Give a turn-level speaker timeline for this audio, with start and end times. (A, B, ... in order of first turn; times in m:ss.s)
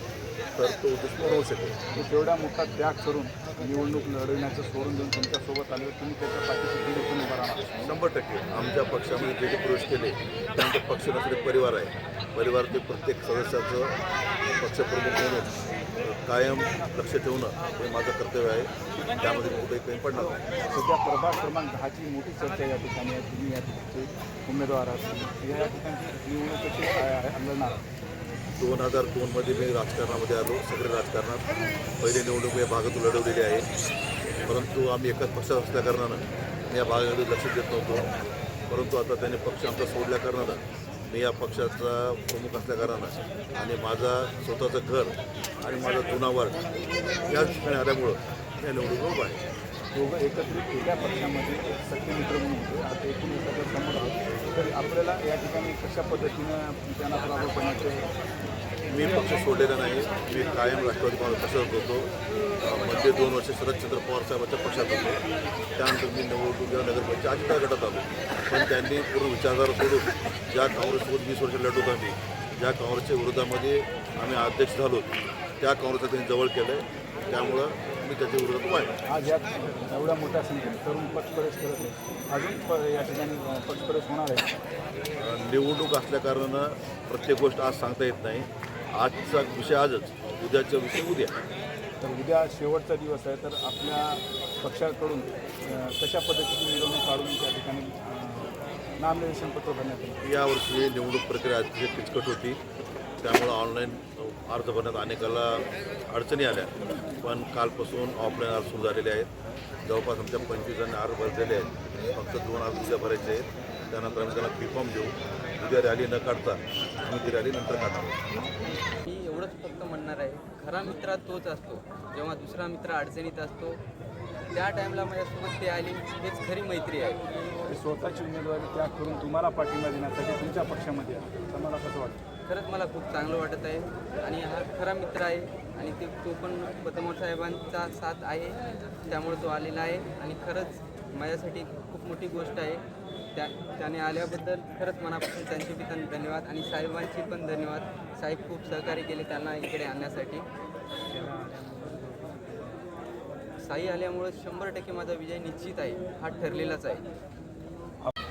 0:00.6-0:01.8 A
0:01.9-0:07.9 B
0:07.8-0:14.0 A
0:14.5-0:20.4 A
0:20.1-0:27.8 B
0:28.6-0:33.7 A
0:34.4-0:38.1 A
0:38.7-0:46.6 A
0:47.2-0:49.4 A
0:49.9-0:58.1 B
0:58.9-1:05.2 A
1:05.8-1:18.9 A
1:19.1-1:24.5 B
1:25.2-1:31.4 A
1:32.0-1:40.2 B
1:40.2-1:42.6 A
1:43.2-1:49.3 A
1:49.8-1:58.3 A
1:59.0-2:03.8 C
2:04.5-2:07.3 C
2:07.7-2:12.2 B
2:12.5-2:22.8 C
2:23.4-2:30.5 C
2:31.5-2:32.5 C
2:33.6-2:37.1 C